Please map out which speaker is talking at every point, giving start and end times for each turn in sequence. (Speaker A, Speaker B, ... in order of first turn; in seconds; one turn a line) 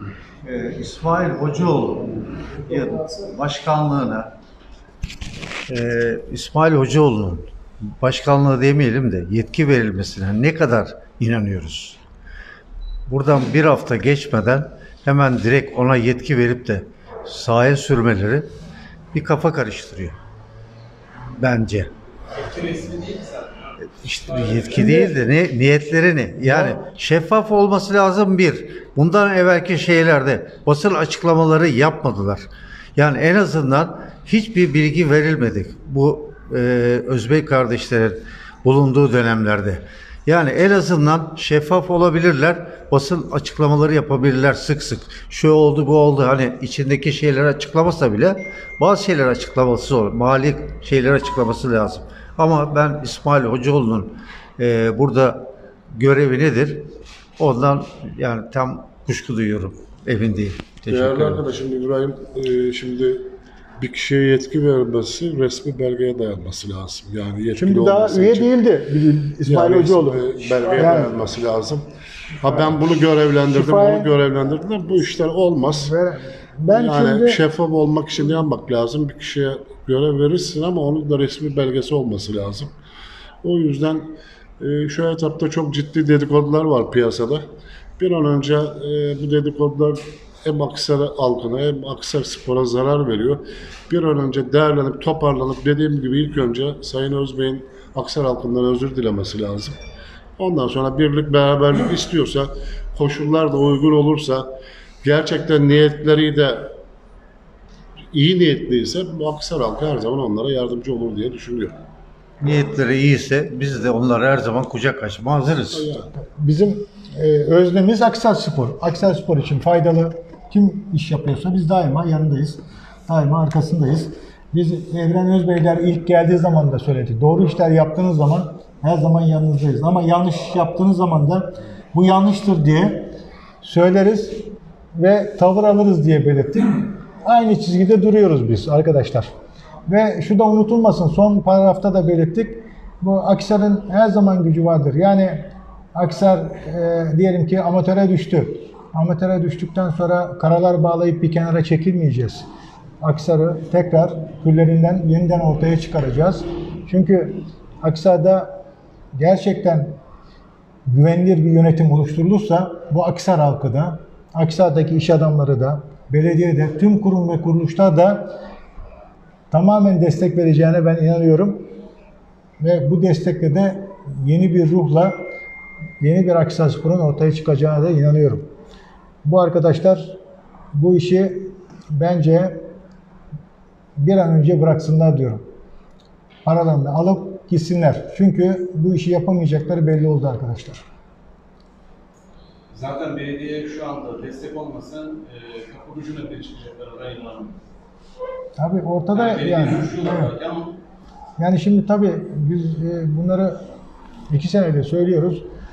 Speaker A: 0.4-4.3
Speaker A: 5.7-12.0
Speaker A: 13.1-18.5
Speaker A: 19.1-20.1
Speaker A: 21.4-21.9
Speaker B: 22.3-23.7
Speaker A: 23.8-61.4
Speaker B: 24.3-24.9
Speaker C: 24.8-25.1
Speaker D: 60.9-63.3
Speaker D: 63.8-68.5
Speaker C: 67.6-71.2
Speaker D: 69.4-71.9
Speaker D: 72.4-75.9
Speaker C: 73.5-74.1
Speaker C: 75.8-77.4
Speaker D: 76.7-82.7
Speaker D: 83.4-87.5
Speaker D: 88.0-99.8
Speaker D: 100.4-104.5
Speaker D: 105.0-106.7
Speaker D: 108.1-111.8
Speaker A: 112.4-115.9
Speaker D: 115.7-116.1
Speaker C: 116.2-139.3
Speaker C: 139.9-152.4
Speaker C: 153.0-158.6
Speaker C: 159.1-160.0
Speaker C: 160.9-168.4
Speaker C: 169.5-171.7
Speaker C: 172.6-175.2
Speaker C: 176.0-178.5
Speaker C: 179.2-180.2
Speaker C: 180.7-182.6
Speaker C: 184.0-185.4
Speaker C: 186.4-190.8
Speaker B: 192.7-197.6
Speaker C: 198.6-200.3
Speaker B: 199.1-200.8
Speaker C: 201.4-203.6
Speaker C: 204.3-205.4